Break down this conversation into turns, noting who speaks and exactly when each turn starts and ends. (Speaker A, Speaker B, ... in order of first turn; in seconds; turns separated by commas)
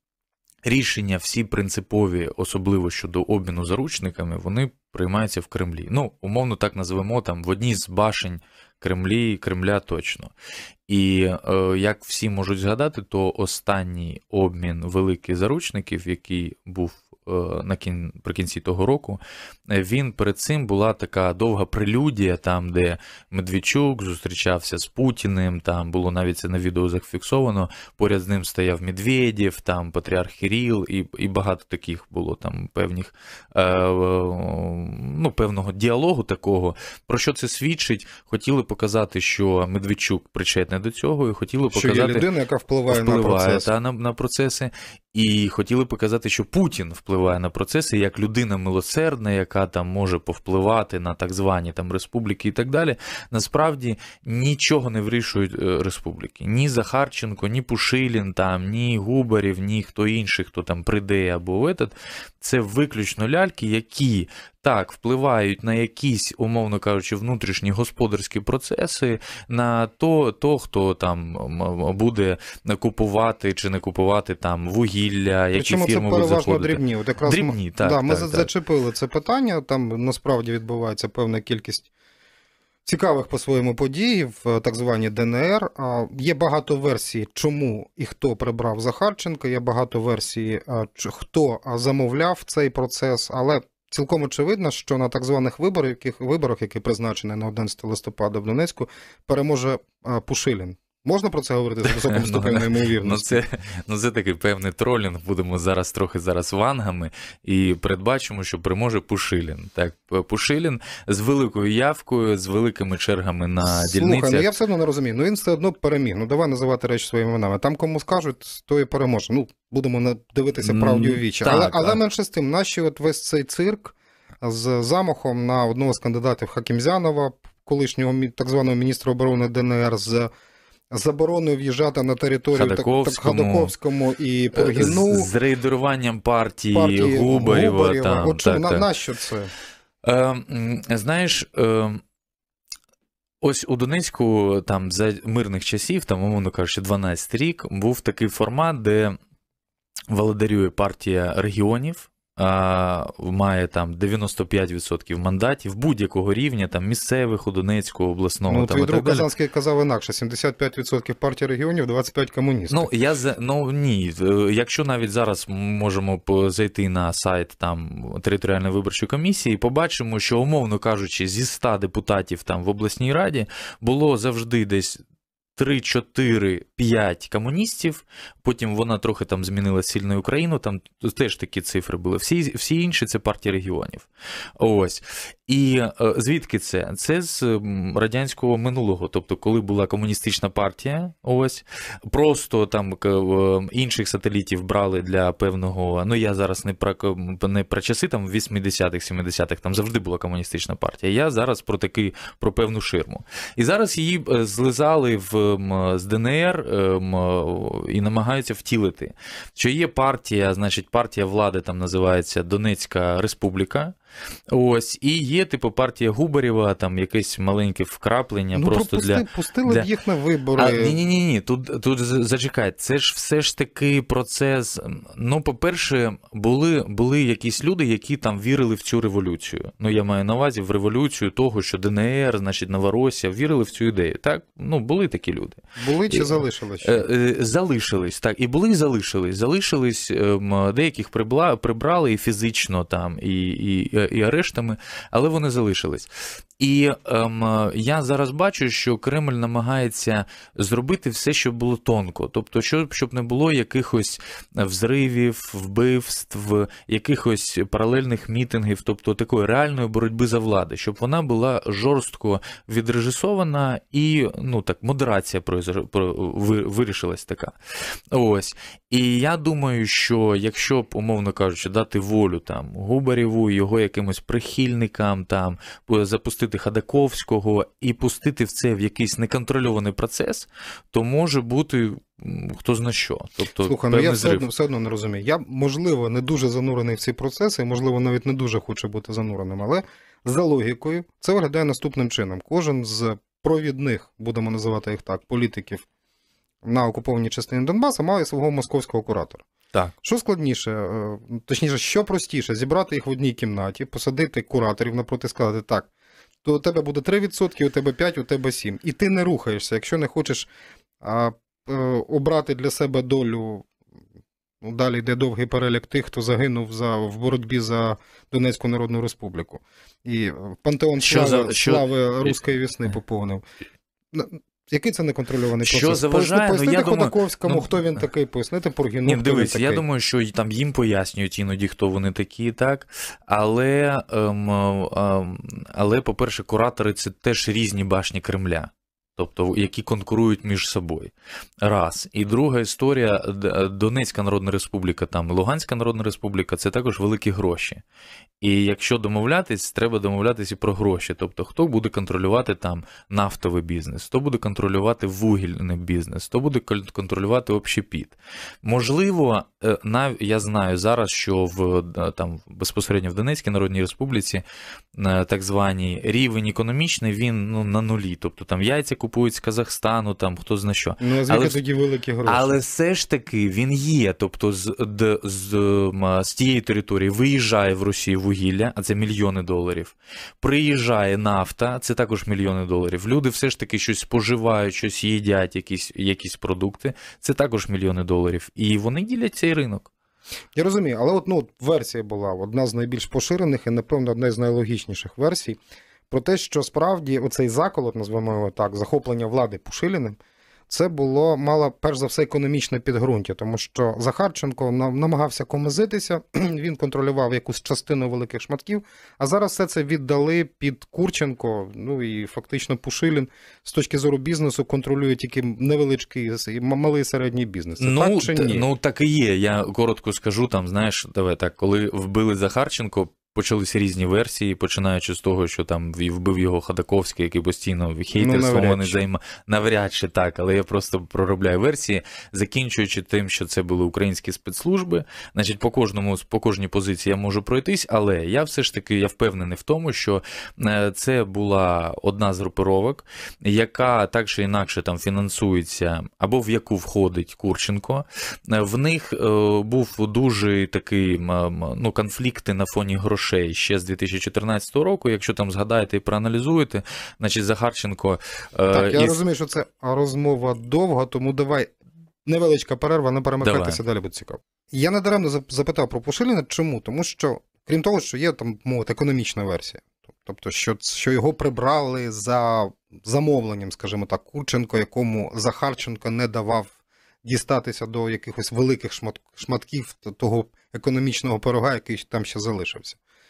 Speaker A: 0.6-10.3, Speaker A: 10.9-42.3, Speaker B: 41.7-43.7, Speaker A: 42.9-78.5, Speaker B: 75.5-81.9, Speaker B: 82.8-103.4, Speaker A: 101.9-114.5, Speaker B: 113.6-130.3, Speaker A: 120.6-122.0, Speaker B: 130.9-135.3, Speaker A: 132.5-133.7, Speaker A: 134.5-138.9, Speaker B: 136.7-139.5, Speaker A: 140.0-142.0, Speaker A: 143.4-149.2, Speaker A: 150.1-159.3, Speaker B: 158.5-162.9, Speaker A: 162.7-175.0, Speaker A: 175.6-184.1, Speaker A: 184.6-213.9, Speaker A: 214.5-219.9, Speaker B: 218.5-221.0, Speaker A: 220.6-267.5, Speaker B: 235.8-237.0, Speaker A: 268.1-284.5, Speaker B: 283.6-295.8, Speaker B: 296.6-299.4, Speaker B: 300.0-305.9, Speaker B: 306.4-310.5, Speaker B: 311.0-313.7, Speaker B: 314.6-323.4, Speaker A: 321.0-322.4, Speaker B: 324.1-329.8, Speaker A: 325.6-327.8, Speaker A: 329.1-347.8, Speaker A: 348.4-364.4, Speaker A: 364.9-371.6, Speaker B: 371.0-372.6, Speaker A: 372.2-389.9, Speaker B: 390.5-395.6, Speaker B: 396.1-400.1, Speaker B: 400.7-418.6, Speaker A: 417.8-459.1, Speaker B: 428.1-429.0, Speaker B: 458.7-461.7, Speaker B: 462.2-476.7, Speaker A: 463.4-463.8, Speaker B: 477.2-483.0